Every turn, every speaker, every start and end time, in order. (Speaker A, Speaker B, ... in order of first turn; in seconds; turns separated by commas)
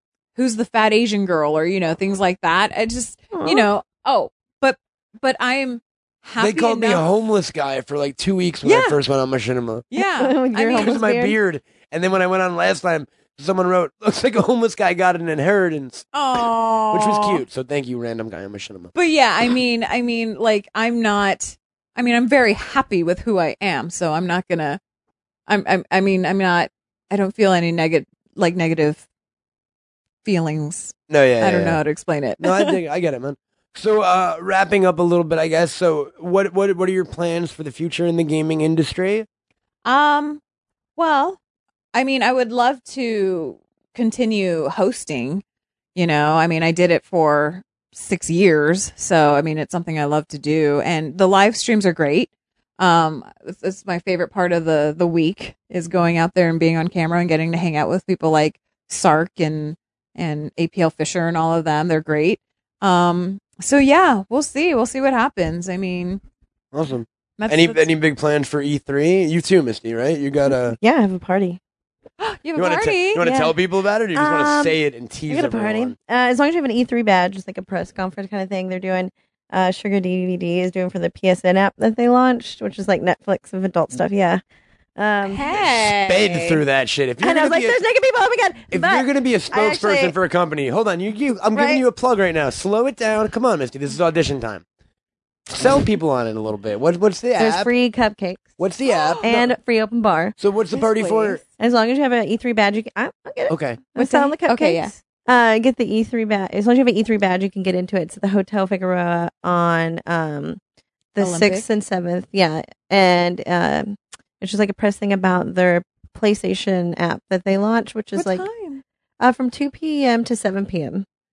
Speaker A: 0.3-7.0, Speaker B: 3.3-3.7, Speaker C: 6.4-9.8, Speaker A: 8.6-9.0, Speaker A: 9.9-11.0, Speaker B: 10.2-11.4, Speaker C: 10.7-16.1, Speaker A: 16.1-17.4, Speaker C: 16.9-18.9, Speaker A: 18.9-24.8, Speaker A: 25.5-29.0, Speaker A: 30.2-32.8, Speaker C: 31.1-31.8, Speaker C: 32.4-39.3, Speaker A: 39.9-40.4, Speaker A: 41.0-41.4, Speaker A: 41.9-45.4, Speaker A: 46.0-66.2, Speaker C: 66.7-70.8, Speaker A: 67.4-67.9, Speaker B: 70.8-71.6, Speaker A: 72.2-73.3, Speaker C: 72.6-75.9, Speaker B: 73.2-73.6, Speaker B: 74.2-74.8, Speaker B: 75.3-84.4, Speaker B: 85.0-85.5, Speaker A: 85.2-86.6, Speaker C: 85.8-87.8, Speaker B: 87.2-90.2, Speaker C: 88.7-94.6, Speaker B: 91.5-91.8, Speaker C: 95.5-97.7, Speaker B: 97.4-98.6, Speaker C: 98.6-99.5, Speaker A: 98.8-99.3, Speaker B: 99.2-110.6, Speaker C: 100.4-101.4, Speaker A: 100.8-101.4, Speaker C: 103.5-103.9, Speaker A: 104.0-104.9, Speaker B: 111.2-118.5, Speaker A: 111.2-111.7, Speaker A: 118.1-118.8, Speaker B: 119.2-121.0